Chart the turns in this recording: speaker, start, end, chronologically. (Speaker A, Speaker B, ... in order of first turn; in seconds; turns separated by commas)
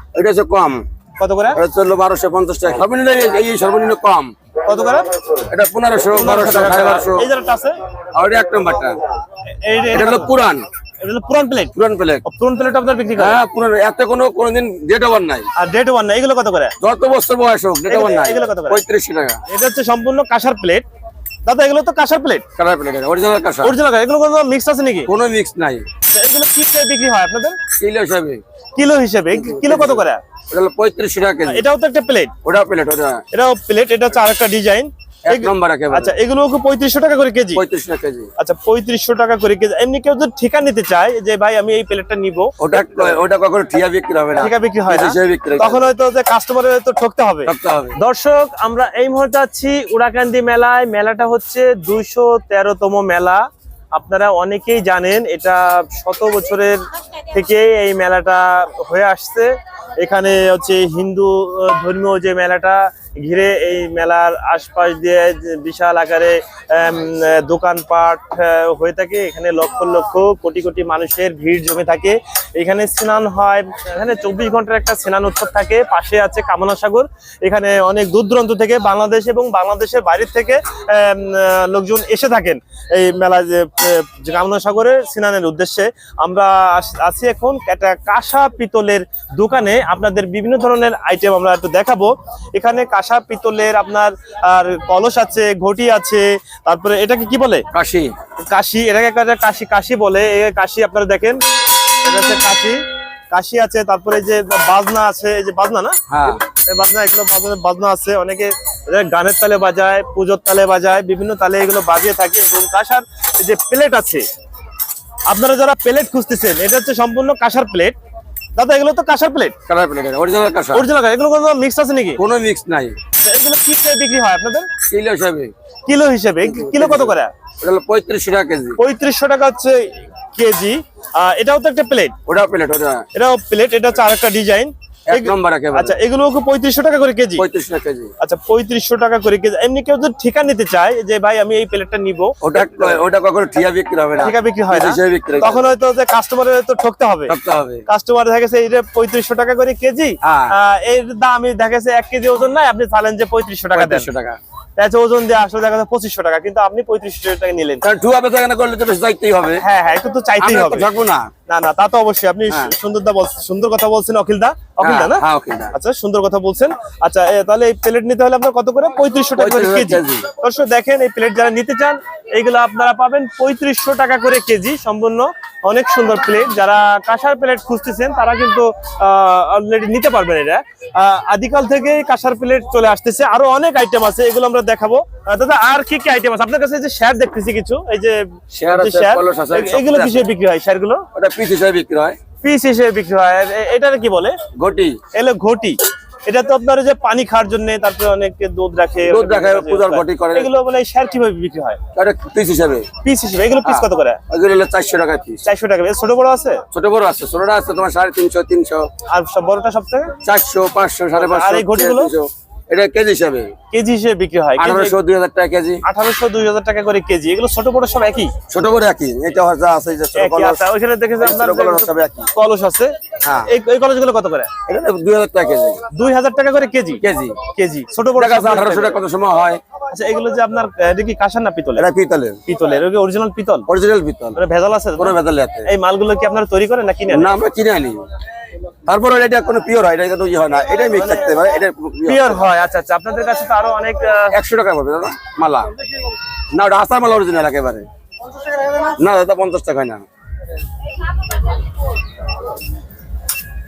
Speaker A: 0.1-0.8, Speaker B: 1.2-1.6, Speaker A: 1.5-4.3, Speaker B: 4.7-5.1, Speaker A: 5.5-7.3, Speaker B: 6.1-7.8, Speaker A: 8.1-9.0, Speaker B: 9.5-10.3, Speaker A: 9.9-10.7, Speaker B: 11.0-11.7, Speaker A: 11.7-12.2, Speaker B: 12.2-13.4, Speaker A: 13.2-15.5, Speaker B: 15.6-16.7, Speaker A: 16.8-19.4, Speaker B: 17.9-18.8, Speaker B: 19.5-20.8, Speaker B: 21.4-22.5, Speaker A: 22.6-23.7, Speaker B: 23.6-25.1, Speaker A: 25.1-25.8, Speaker B: 26.1-27.6, Speaker A: 27.7-28.4, Speaker B: 28.8-30.2, Speaker A: 29.3-31.6, Speaker B: 31.5-32.3, Speaker A: 32.4-33.2, Speaker B: 33.3-37.6, Speaker A: 35.2-36.1, Speaker A: 37.5-38.3, Speaker B: 38.4-43.1, Speaker A: 42.6-45.9, Speaker B: 44.4-97.7, Speaker A: 47.4-48.0, Speaker A: 97.7-98.1, Speaker B: 98.4-101.4, Speaker B: 102.0-114.3, Speaker A: 106.1-106.4, Speaker B: 115.3-118.0, Speaker B: 118.5-119.5, Speaker A: 119.7-120.9, Speaker B: 120.7-122.2, Speaker A: 122.2-123.0, Speaker B: 123.2-124.7, Speaker A: 124.8-125.5, Speaker B: 125.9-127.3, Speaker A: 126.4-128.8, Speaker B: 128.8-132.2, Speaker A: 132.2-133.1, Speaker B: 133.1-137.4, Speaker A: 135.1-136.0, Speaker A: 137.4-138.1, Speaker B: 138.2-143.0, Speaker A: 142.4-145.6, Speaker B: 144.2-147.3, Speaker A: 147.3-147.8, Speaker B: 147.9-154.1, Speaker A: 150.2-150.6, Speaker A: 153.7-154.4, Speaker B: 154.8-157.8, Speaker A: 157.8-159.6, Speaker B: 159.6-160.9, Speaker A: 160.4-161.3, Speaker B: 161.4-191.1, Speaker A: 164.8-165.7, Speaker A: 169.4-170.3, Speaker A: 188.5-190.3, Speaker A: 191.1-192.2, Speaker B: 192.4-194.4, Speaker A: 194.6-195.0, Speaker B: 195.1-201.8, Speaker A: 199.0-200.5, Speaker A: 201.9-202.9, Speaker B: 203.0-204.2, Speaker A: 203.6-205.4, Speaker B: 205.4-206.6, Speaker A: 206.7-208.9, Speaker B: 209.1-210.1, Speaker A: 210.2-213.5, Speaker B: 211.2-212.1, Speaker B: 213.7-214.9, Speaker A: 214.6-215.8, Speaker B: 215.8-218.3, Speaker A: 218.5-220.6, Speaker B: 220.1-222.9, Speaker A: 221.2-222.3, Speaker A: 223.2-223.5, Speaker B: 223.4-224.5, Speaker A: 224.7-225.8, Speaker B: 225.9-229.0, Speaker A: 227.0-227.4, Speaker A: 228.2-229.6, Speaker B: 229.9-231.8, Speaker A: 231.8-232.4, Speaker B: 232.5-233.7, Speaker A: 233.7-234.4, Speaker B: 234.3-237.3, Speaker A: 235.0-235.7, Speaker A: 237.1-238.1, Speaker A: 238.8-242.4, Speaker B: 240.9-241.4, Speaker B: 242.1-244.3, Speaker A: 244.3-245.7, Speaker A: 246.5-247.9, Speaker A: 248.8-250.0